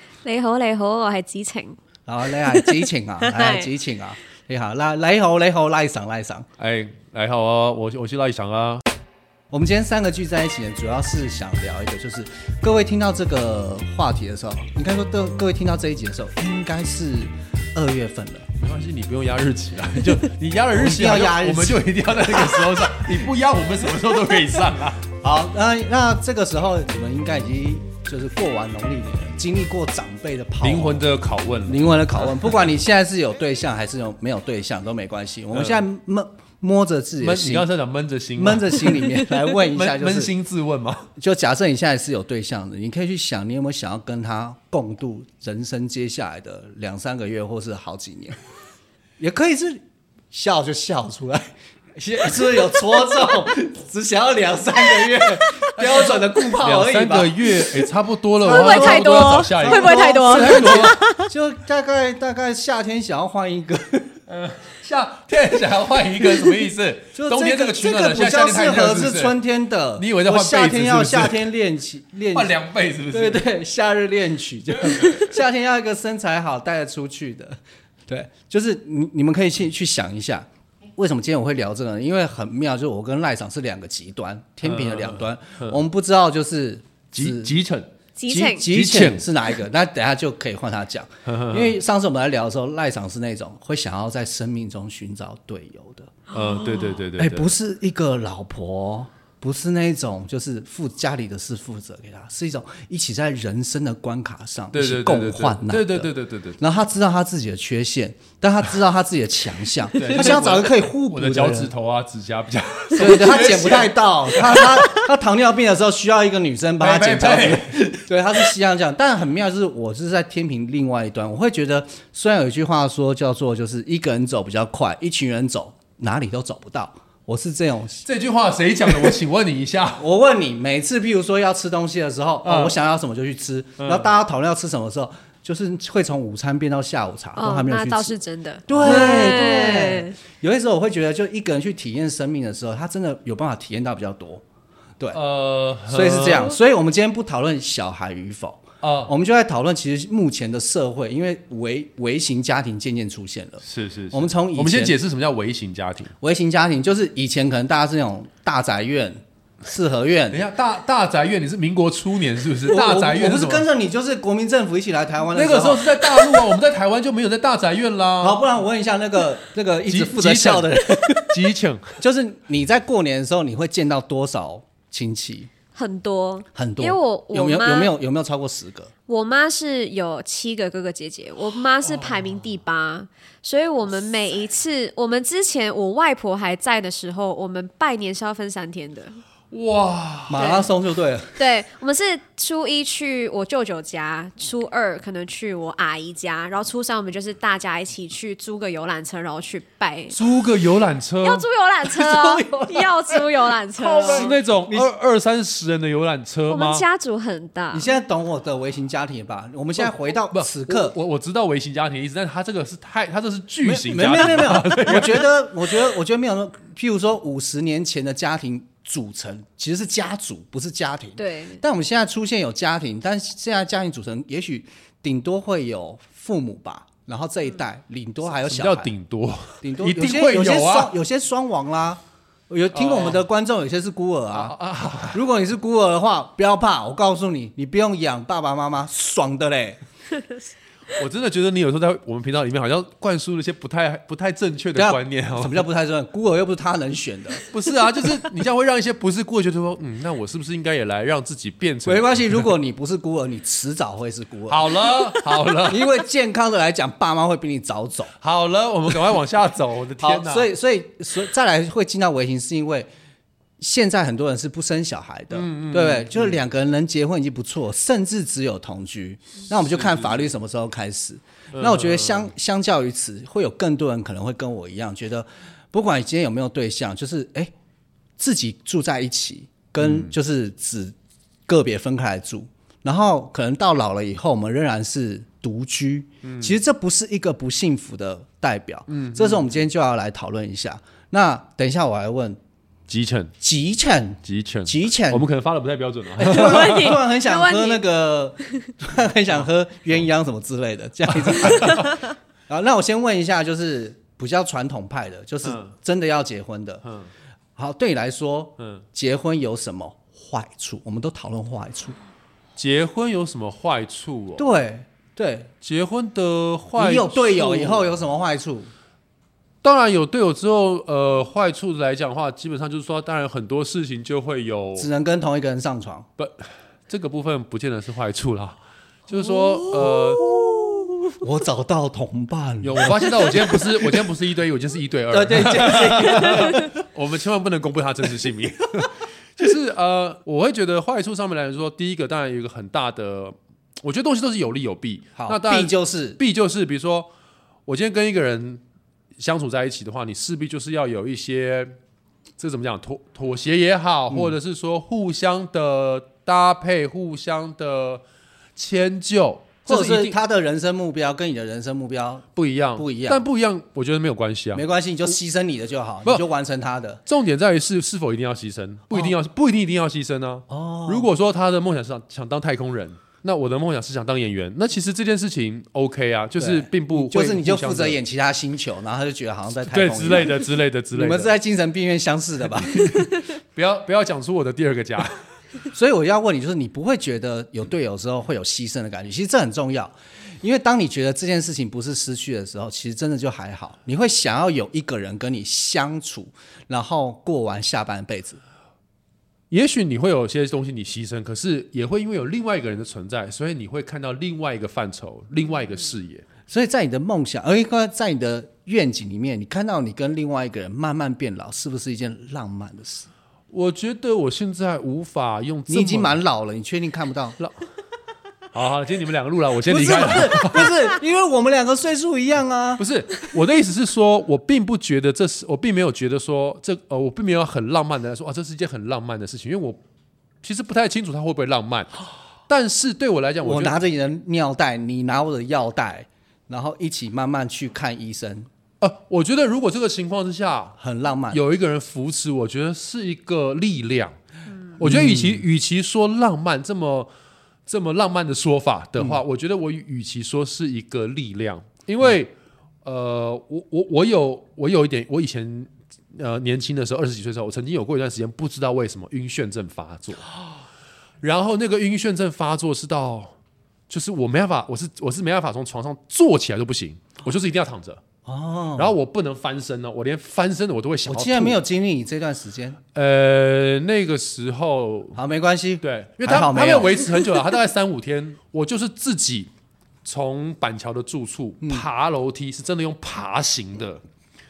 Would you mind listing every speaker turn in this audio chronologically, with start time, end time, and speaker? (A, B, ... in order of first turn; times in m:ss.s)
0:00.2-0:01.8 A
0:02.1-0:06.5 B
0:02.3-0:03.7 A
0:06.6-0:08.8 C
0:09.5-0:18.4 B
0:18.6-0:25.0 C
0:20.7-0:22.6 B
0:25.2-0:31.1 B
0:30.6-0:32.5 C
0:31.7-0:37.7 B
0:35.5-0:35.8 C
0:37.2-0:39.0 C
0:38.4-0:40.3 B
0:39.6-0:41.1 C
0:41.2-0:48.4 B
0:49.2-0:57.8 B
0:55.8-1:01.0 C
0:58.4-1:04.1 B
0:58.4-1:01.3 A
1:04.3-1:09.4 C
1:07.1-1:12.5 B
1:10.0-1:11.5 C
1:12.3-1:13.4 C
1:13.1-1:17.6 B
1:14.8-1:15.3 C
1:18.1-1:27.6 B
1:24.6-1:25.8 C
1:27.1-1:27.9 C
1:28.2-1:28.6 A
1:28.3-1:36.2 B
1:28.6-1:29.3 C
1:31.2-1:31.8 C
1:36.3-1:37.5 C
1:36.4-1:36.8 A
1:37.2-1:51.7 B
1:44.7-1:46.6 C
1:49.9-1:54.9 C
1:52.9-2:08.0 B
1:56.8-1:58.5 C
2:08.0-2:10.0 C
2:10.0-2:18.1 B
2:12.4-2:12.7 C
2:13.8-2:14.1 C
2:17.4-2:20.2 A
2:18.7-2:24.4 B
2:18.7-2:19.3 C
2:25.1-2:26.6 C
2:25.9-2:34.9 B
2:28.8-2:29.1 C
2:33.6-2:36.1 C
2:36.2-2:40.4 B
2:40.3-2:43.6 C
2:42.7-2:46.3 B
2:45.3-2:48.4 C
2:48.2-2:51.3 B
2:49.8-2:52.0 C
2:52.0-2:55.5 B
2:55.8-2:57.9 A
2:56.5-2:58.9 B
2:59.1-3:09.2 A
3:01.8-3:02.5 C
3:09.5-3:10.6 C
3:10.3-3:11.4 B
3:10.4-3:10.6 A
3:11.4-3:20.2 A
3:20.1-3:22.8 C
3:21.2-3:24.3 A
3:23.8-3:24.9 B
3:24.0-3:26.8 C
3:26.5-3:27.9 A
3:27.7-3:30.9 B
3:29.8-3:35.2 C
3:33.6-3:48.9 B
3:41.2-3:41.6 A
3:48.4-3:50.9 C
3:49.6-3:54.5 B
3:52.7-3:53.2 C
3:54.3-3:55.2 C
3:55.1-3:59.8 B
4:00.9-4:05.6 C
4:04.8-4:07.4 B
4:07.5-4:12.5 C
4:11.8-4:18.1 B
4:14.5-4:15.8 C
4:18.2-4:20.5 C
4:20.0-4:22.9 B
4:23.6-4:37.5 B
4:25.3-4:26.4 C
4:29.5-4:30.3 C
4:31.5-4:32.3 C
4:38.2-4:40.9 B
4:39.8-4:40.1 C
4:41.5-4:52.4 B
4:46.2-4:46.6 C
4:48.9-4:49.5 C
4:52.9-4:53.3 C
4:53.4-4:55.2 B
4:54.2-4:57.0 C
4:56.2-5:06.8 B
4:56.3-4:57.8 A
4:58.4-4:58.7 A
5:01.1-5:01.9 C
5:05.4-5:05.7 C
5:06.8-5:07.1 C
5:07.6-5:12.0 B
5:08.6-5:08.8 C
5:12.6-5:14.5 C
5:14.4-5:15.5 B
5:15.6-5:17.9 C
5:16.7-5:18.7 B
5:19.6-5:24.9 C
5:24.8-5:26.1 B
5:26.2-5:30.2 C
5:29.1-5:34.0 B
5:32.6-5:47.1 C
5:35.1-5:36.7 B
5:45.2-5:46.2 B
5:47.6-5:48.6 C
5:49.2-5:51.8 C
5:52.4-5:58.0 C
5:58.6-6:00.2 C
5:59.6-6:03.2 B
6:02.4-6:04.6 C
6:04.5-6:07.0 B
6:07.0-6:18.0 C
6:10.5-6:11.1 B
6:16.4-6:23.1 B
6:19.7-6:21.3 C
6:22.6-6:25.2 C
6:25.7-6:38.4 B
6:39.5-6:46.2 C
6:46.5-6:53.1 B
6:53.5-6:56.2 C
6:55.7-6:57.4 B
6:58.5-7:00.7 C
6:59.6-7:02.8 B
7:02.8-7:09.8 C
7:10.4-7:11.9 C
7:12.5-7:13.8 C
7:13.4-7:18.5 B
7:18.8-7:20.8 C
7:20.8-7:21.4 B
7:21.3-7:24.1 C
7:24.8-7:27.1 C
7:24.8-7:25.4 B
7:27.6-7:32.3 C
7:32.8-7:40.2 C
7:41.2-7:43.3 C
7:43.9-7:48.0 C
7:48.2-7:48.9 B
7:48.8-7:51.6 C
7:51.1-7:52.8 B
7:52.9-7:55.2 C
7:55.1-7:57.1 B
7:55.8-7:59.5 C
8:00.0-8:04.0 C